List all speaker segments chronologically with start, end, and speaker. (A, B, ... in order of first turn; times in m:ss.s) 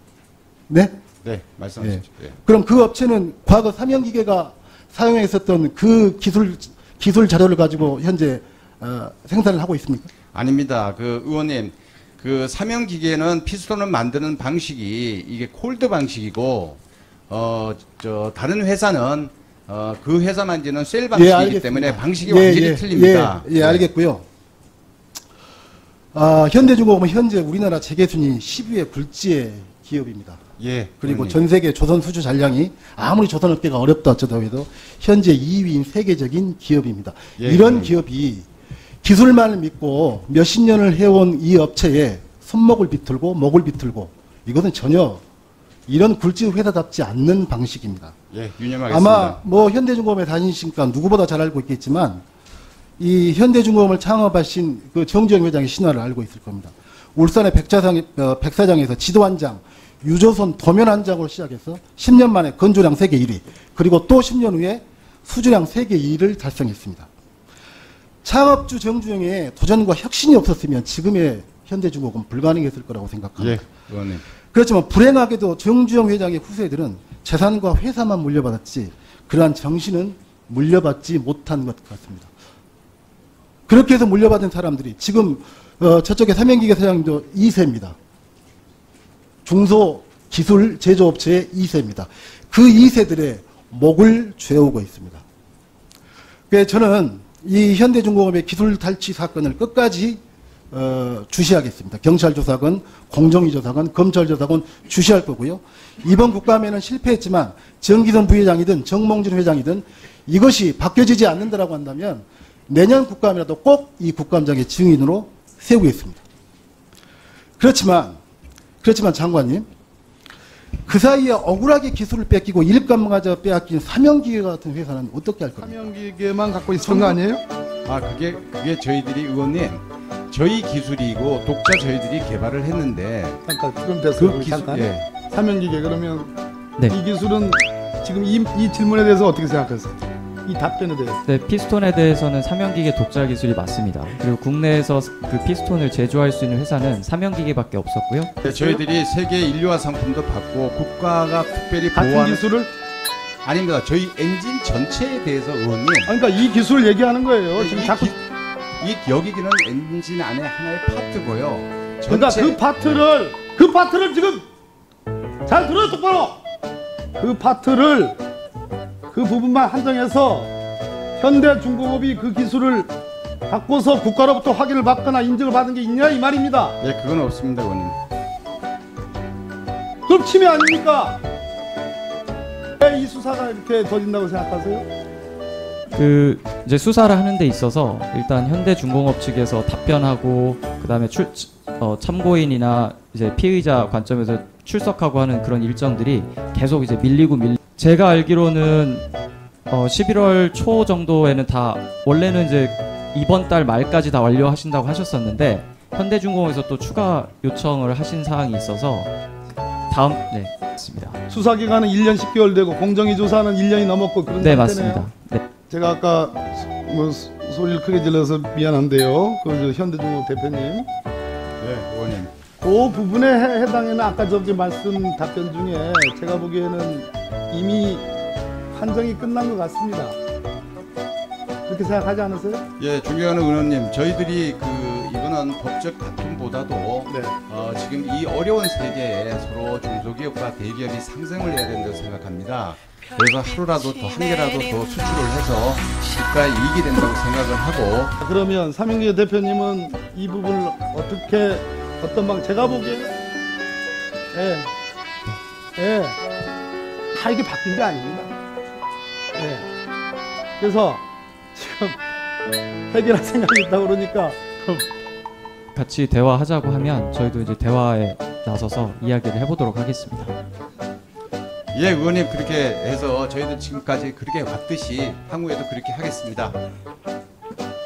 0:00.7-0:01.0 A
0:01.2-0:02.4 B
0:01.8-0:10.1 A
0:10.3-0:23.9 B
0:21.1-0:24.2 A
0:26.1-0:30.4 A
0:30.6-0:31.4 B
0:31.0-0:38.5 A
0:37.4-0:37.9 B
0:39.0-0:45.2 A
0:45.9-0:48.1 A
0:48.3-0:49.4 B
0:48.9-0:52.2 A
0:53.0-1:07.1 A
1:08.2-1:13.7 A
1:13.4-1:14.2 B
1:14.5-1:22.3 A
1:23.7-1:28.0 A
1:29.4-1:35.2 A
1:36.5-1:56.2 A
1:57.6-1:58.2 A
1:58.8-1:59.7 A
2:00.8-2:05.8 A
2:05.6-2:07.4 C
2:06.8-2:07.2 A
2:07.8-2:13.4 B
2:13.4-2:16.3 C
2:14.2-2:15.1 B
2:16.9-2:21.2 C
2:21.2-2:28.3 D
2:28.4-2:32.4 B
2:28.4-2:28.8 C
2:31.9-2:32.7 C
2:33.4-2:36.1 B
2:36.1-2:38.2 C
2:37.6-2:38.2 B
2:38.8-2:43.0 B
2:42.1-2:44.4 C
2:45.4-2:46.4 C
2:47.2-2:48.2 C
2:49.1-2:50.5 C
2:51.2-2:52.9 C
2:53.5-2:56.8 C
2:56.8-2:58.0 B
3:00.0-3:01.2 C
3:02.8-3:04.9 C
3:05.9-3:19.1 D
3:19.7-3:29.1 D
3:29.9-3:31.2 D
3:31.3-3:35.1 C
3:34.4-3:35.4 D
3:35.7-3:40.9 C
3:41.6-3:42.3 B
3:42.6-3:48.0 C
3:48.7-3:50.2 C
3:51.7-3:52.6 C
3:52.8-4:08.1 B
3:57.1-3:57.3 C
4:08.2-4:13.1 C
4:14.3-4:14.7 C
4:15.8-4:16.2 C
4:17.1-4:18.3 C
4:19.4-4:19.7 C
4:20.6-4:21.0 C
4:21.5-4:22.0 C
4:22.9-4:24.8 C
4:25.7-4:30.3 D
4:31.7-4:36.6 B